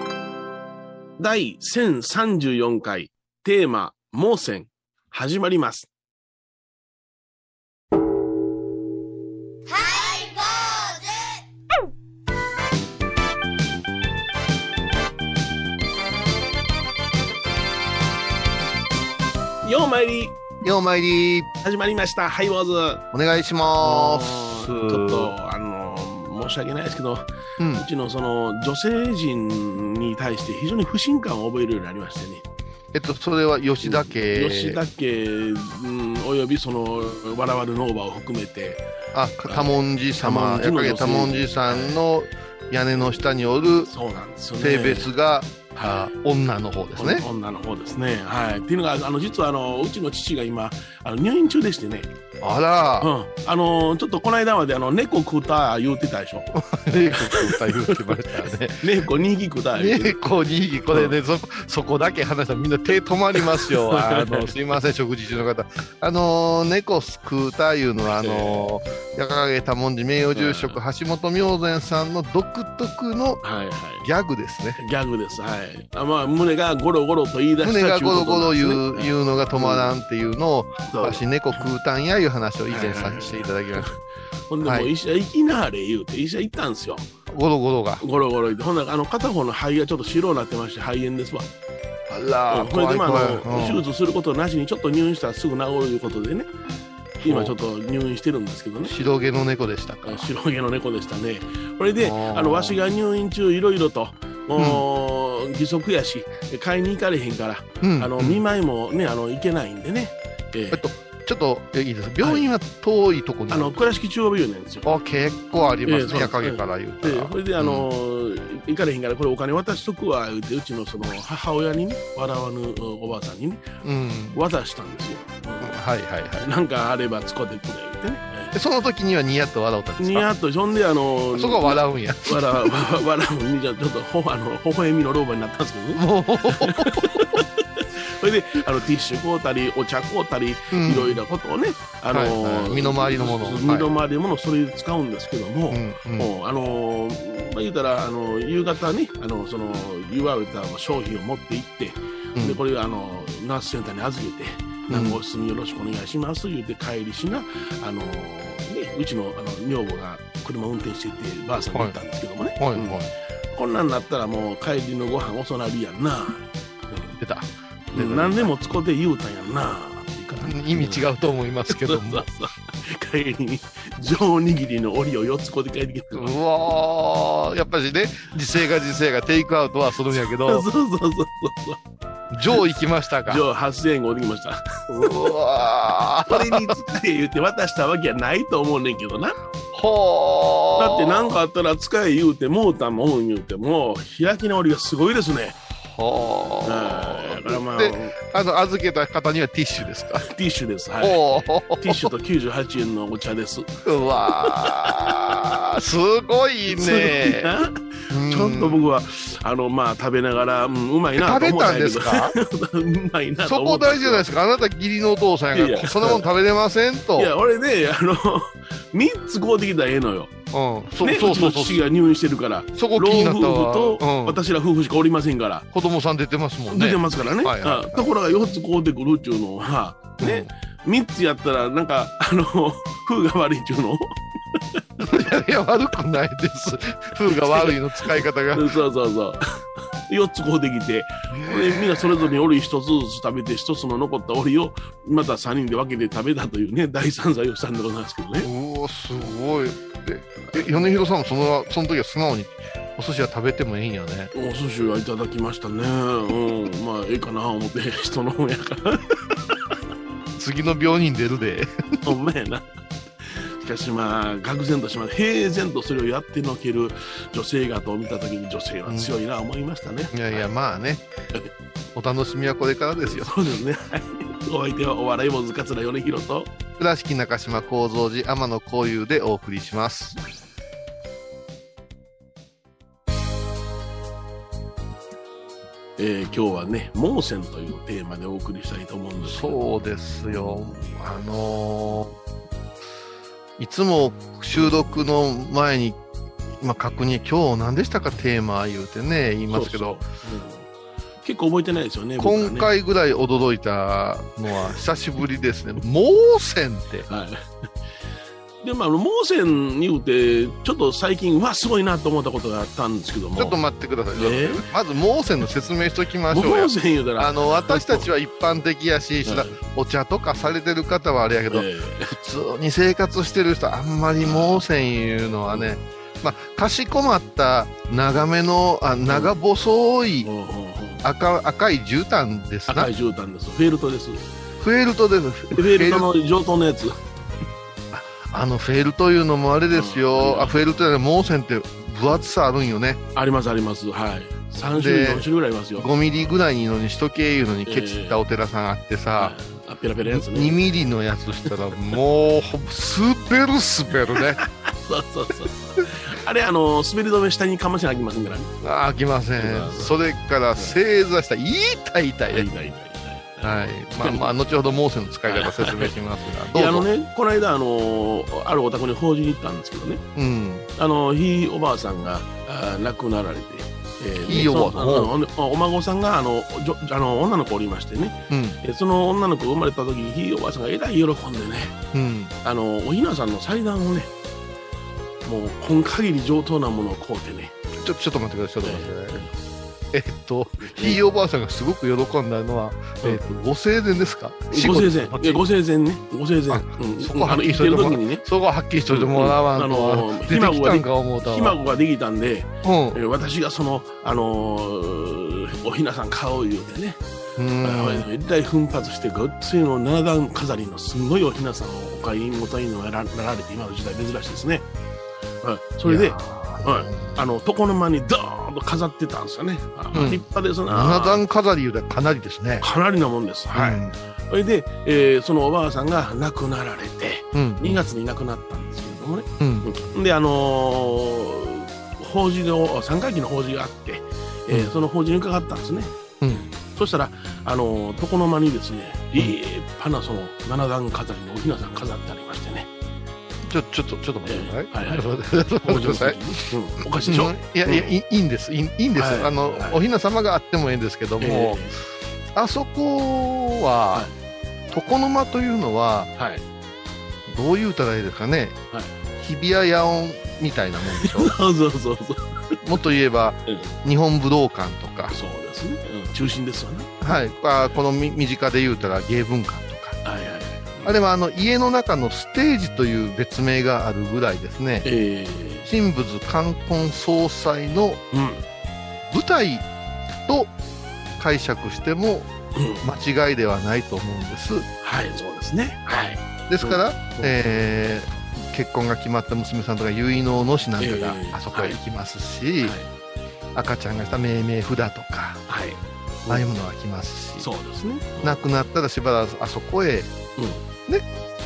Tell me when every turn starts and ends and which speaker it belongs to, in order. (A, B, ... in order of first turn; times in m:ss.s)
0:01.2-0:05.9 A
0:19.6-0:20.4 A
0:20.6-0:21.5 B
0:21.6-0:23.0 A
0:23.1-0:25.3 B
0:23.8-0:32.4 A
0:27.6-0:27.8 B
0:32.9-0:34.8 B
0:33.8-0:38.8 A
0:39.1-0:43.9 B
0:39.5-0:42.0 A
0:43.9-0:45.1 A
0:44.6-0:47.2 B
0:45.8-0:46.0 A
0:47.0-0:52.1 A
0:52.4-0:53.1 B
0:53.0-0:56.5 A
0:56.5-0:58.8 B
0:57.2-0:58.0 A
0:58.8-1:00.2 A
0:59.7-1:13.4 B
1:03.4-1:04.5 A
1:08.1-1:08.7 A
1:10.3-1:10.8 A
1:13.4-1:14.0 A
1:14.0-1:14.8 B
1:14.8-1:19.9 A
1:17.6-1:23.9 B
1:20.9-1:21.6 A
1:22.7-1:24.0 A
1:24.5-1:27.1 A
1:24.6-1:24.9 B
1:27.3-1:28.0 B
1:28.0-1:31.5 A
1:32.1-1:33.8 B
1:32.5-1:36.5 A
1:37.2-1:37.6 B
1:37.2-1:39.0 A
1:38.8-1:40.3 B
1:40.0-1:50.8 A
1:42.0-1:42.8 B
1:44.6-1:44.8 B
1:47.8-1:48.4 B
1:50.7-1:53.8 B
1:52.2-1:52.5 A
1:53.5-1:54.9 A
1:54.8-1:57.9 B
1:55.9-2:03.7 A
2:03.8-2:04.4 B
2:04.3-2:05.8 A
2:05.6-2:06.5 B
2:06.4-2:08.6 A
2:08.5-2:10.3 B
2:10.0-2:43.0 A
2:11.3-2:12.8 B
2:16.0-2:17.4 B
2:20.7-2:21.2 B
2:22.1-2:23.9 B
2:25.7-2:26.3 B
2:34.9-2:35.2 B
2:42.6-2:43.1 B
2:43.5-2:47.2 A
2:47.2-2:48.5 B
2:48.0-2:51.1 A
2:50.4-2:52.3 B
2:51.7-2:56.3 A
2:56.2-3:00.7 B
3:00.2-3:01.8 A
3:02.3-3:03.4 B
3:03.3-3:05.2 A
3:04.9-3:06.8 B
3:06.3-3:09.4 A
3:09.7-3:11.3 B
3:10.8-3:15.6 A
3:15.8-3:20.3 B
3:16.6-3:18.2 A
3:20.2-3:21.2 A
3:21.0-3:22.1 B
3:21.8-3:25.4 A
3:23.8-3:27.6 B
3:26.7-3:34.3 A
3:28.1-3:28.8 B
3:31.2-3:32.3 B
3:33.4-3:37.3 B
3:35.5-3:36.3 A
3:37.2-3:40.3 A
3:40.5-3:41.8 B
3:41.0-3:45.7 A
3:42.8-3:44.4 B
3:45.7-3:48.1 B
3:46.7-3:55.2 A
3:50.2-3:50.5 B
3:55.0-3:58.7 B
3:57.3-3:59.4 A
4:00.1-4:08.5 A
4:01.3-4:02.2 B
4:08.4-4:14.3 B
4:10.4-4:10.9 A
4:14.3-4:19.2 A
4:20.4-4:22.1 B
4:22.0-4:22.6 A
4:23.2-4:30.4 A
4:28.9-4:29.2 B
4:30.1-4:31.0 B
4:32.0-4:33.4 B
4:33.0-4:36.5 A
4:36.8-4:40.2 B
4:46.0-4:49.6 A
4:49.2-4:52.2 B
4:50.3-4:50.8 A
4:53.6-4:56.0 B
4:54.6-4:55.0 A
4:56.5-5:00.0 B
4:59.5-5:00.7 A
5:01.2-5:02.7 A
5:02.2-5:07.1 B
5:07.1-5:07.4 A
5:08.6-5:13.6 A
5:13.4-5:30.3 B
5:14.2-5:14.7 A
5:16.3-5:18.1 A
5:19.2-5:19.6 A
5:21.5-5:22.2 A
5:24.2-5:24.6 A
5:29.1-5:29.3 A
5:30.2-5:31.0 A
5:31.0-5:32.9 B
5:32.7-5:34.2 A
5:34.6-5:36.1 B
5:35.5-5:36.9 A
5:37.9-5:43.0 B
5:39.7-5:40.6 A
5:43.1-5:45.9 A
5:44.7-5:49.4 B
5:47.7-5:48.2 A
5:49.2-5:50.6 A
5:50.1-5:54.4 B
5:54.4-5:58.5 A
5:58.6-6:02.5 B
5:59.4-5:59.9 A
6:02.3-6:04.3 A
6:03.4-6:06.9 B
6:05.3-6:06.0 A
6:06.5-6:10.0 A
6:10.2-6:10.7 B
6:10.8-6:21.8 A
6:14.2-6:15.1 B
6:18.3-6:18.6 B
6:21.9-6:22.3 B
6:22.4-6:24.1 A
6:25.2-6:27.6 A
6:27.7-6:29.3 B
6:28.6-6:29.3 A
6:29.9-6:35.4 B
6:30.6-6:31.0 A
6:34.5-6:38.2 A
6:36.5-6:41.6 B
6:38.9-6:47.0 A
6:42.6-6:43.0 B
6:47.4-6:48.1 B
6:47.6-6:54.7 A
6:55.4-7:01.2 A
6:55.8-6:57.2 B
6:59.9-7:02.7 B
7:02.6-7:22.7 A
7:03.5-7:04.0 B
7:07.3-7:07.8 B
7:09.4-7:09.7 B
7:23.4-7:26.2 B
7:24.3-7:25.1 A
7:25.6-7:27.9 A
7:27.0-7:31.6 B
7:29.0-7:29.8 A
7:31.2-7:31.8 A
7:32.4-7:34.1 B
7:34.7-7:36.1 B
7:36.2-7:36.4 A
7:37.3-7:38.6 B
7:39.2-7:41.4 B
7:41.0-7:42.6 A
7:42.6-7:45.2 B
7:43.5-7:43.7 A
7:45.1-7:47.1 A
7:47.0-7:50.0 B
7:50.0-7:51.0 A
7:50.8-7:54.9 B
7:54.8-7:55.7 A
7:55.6-7:58.0 B
7:58.1-7:58.4 A
7:59.1-7:59.7 B
8:00.3-8:00.5 B
8:01.2-8:04.7 B
8:02.6-8:02.8 A
8:04.8-8:07.4 A
8:06.5-8:12.8 B
8:10.8-8:11.8 A
8:12.6-8:12.9 A
8:13.6-8:15.4 B
8:15.5-8:16.5 A
8:16.3-8:17.5 B
8:17.4-8:18.4 A
8:18.2-8:20.1 B
8:20.4-8:20.6 A